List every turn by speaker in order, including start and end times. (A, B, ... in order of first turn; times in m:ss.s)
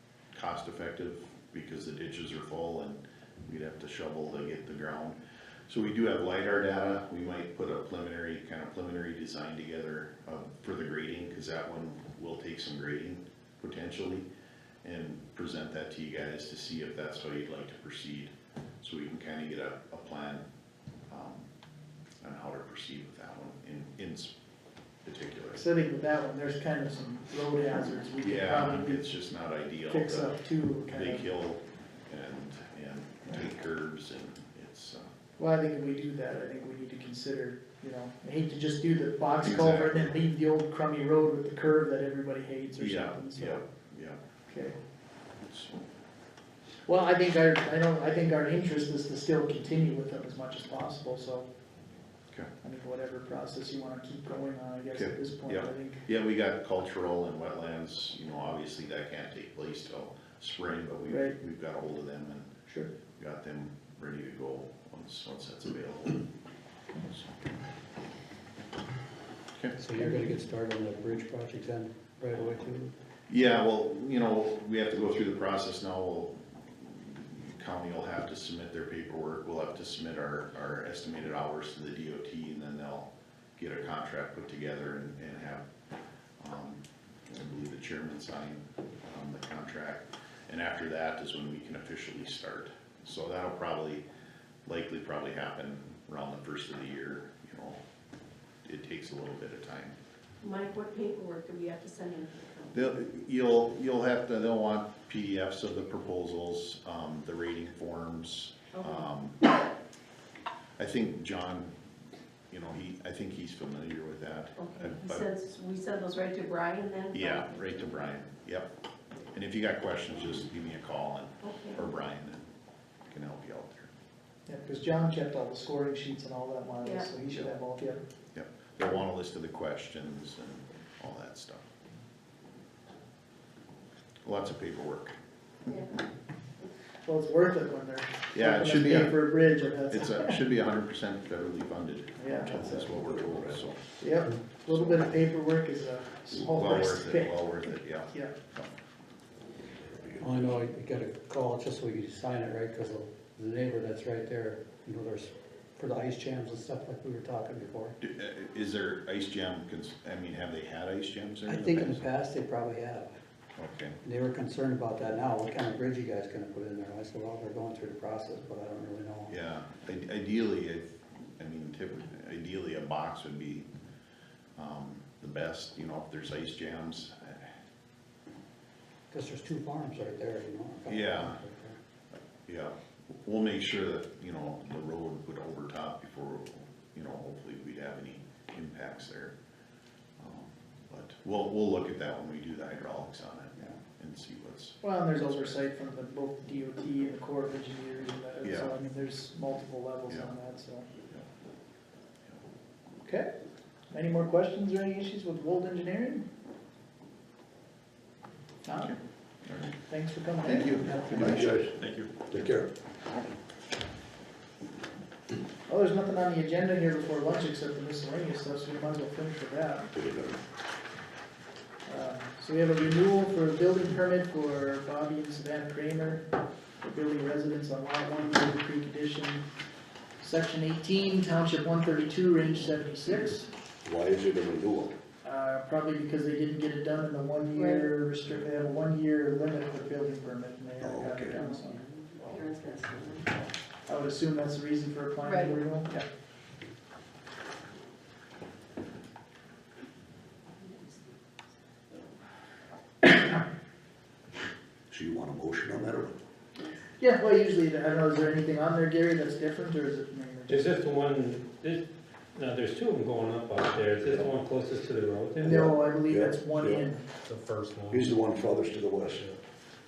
0:00.3-0:05.2 A
0:05.7-0:14.3 A
0:14.8-0:20.4 A
0:21.1-0:21.5 A
0:22.2-0:24.3 A
0:25.0-0:25.6 A
0:25.5-0:29.1 B
0:28.2-0:30.3 A
0:29.9-0:31.3 B
0:30.9-0:35.1 A
0:35.4-0:43.6 B
0:39.4-0:40.1 A
0:42.8-0:44.2 A
0:44.5-0:44.7 B
0:45.5-0:45.8 A
0:46.9-0:51.5 B
0:52.6-0:56.0 B
0:54.9-1:02.5 A
1:01.1-1:01.4 B
1:03.2-1:06.2 A
1:07.0-1:07.3 A
1:09.8-1:12.9 C
1:13.3-1:25.6 A
1:26.4-1:34.0 A
1:34.6-1:37.8 A
1:38.6-1:40.0 A
1:40.4-1:42.8 D
1:42.7-1:49.4 A
1:48.7-1:49.1 D
1:50.8-1:51.7 A
1:52.5-1:55.3 A
1:54.6-1:57.5 D
1:57.1-1:58.7 A
1:59.3-2:02.4 A
2:01.4-2:01.8 D
2:03.1-2:03.9 A
2:04.5-2:08.0 B
2:06.8-2:07.1 D
2:08.3-2:11.6 A
2:14.2-2:15.1 A
2:15.7-2:16.0 D
2:17.0-2:20.4 B
2:18.3-2:19.2 A
2:19.9-2:23.8 A
2:22.2-2:23.0 B
2:22.9-2:23.4 E
2:24.0-2:27.5 B
2:26.4-2:28.7 A
2:28.1-2:28.4 B
2:30.2-2:38.0 C
2:38.0-2:42.0 A
2:41.4-2:43.1 C
2:43.6-2:44.0 A
2:44.0-2:49.3 C
2:49.3-2:53.7 A
2:54.6-2:57.5 A
2:59.1-3:01.8 C
3:00.9-3:01.4 A
3:02.4-3:09.3 A
3:10.2-3:15.5 A
3:14.8-3:20.9 B
3:18.4-3:18.7 A
3:23.0-3:23.3 B
3:23.9-3:26.2 B
3:28.6-3:29.0 B
3:29.4-3:29.7 A
3:29.6-3:31.5 B
3:30.4-3:32.2 A
3:31.1-3:32.7 E
3:35.7-3:39.9 B
3:40.0-3:40.4 E
3:41.8-3:46.2 B
3:46.8-3:49.4 B
3:50.2-3:53.5 B
3:53.8-3:54.9 E
3:55.2-4:01.8 B
3:57.6-3:57.9 D
4:00.8-4:01.4 E
4:01.3-4:03.3 D
4:03.9-4:06.0 B
4:05.2-4:05.5 D
4:10.6-4:11.1 D
4:14.9-4:16.2 E
4:17.0-4:20.6 B
4:20.5-4:25.6 F
4:25.4-4:27.0 B
4:25.4-4:26.8 E
4:27.2-4:28.1 F
4:27.9-4:29.4 E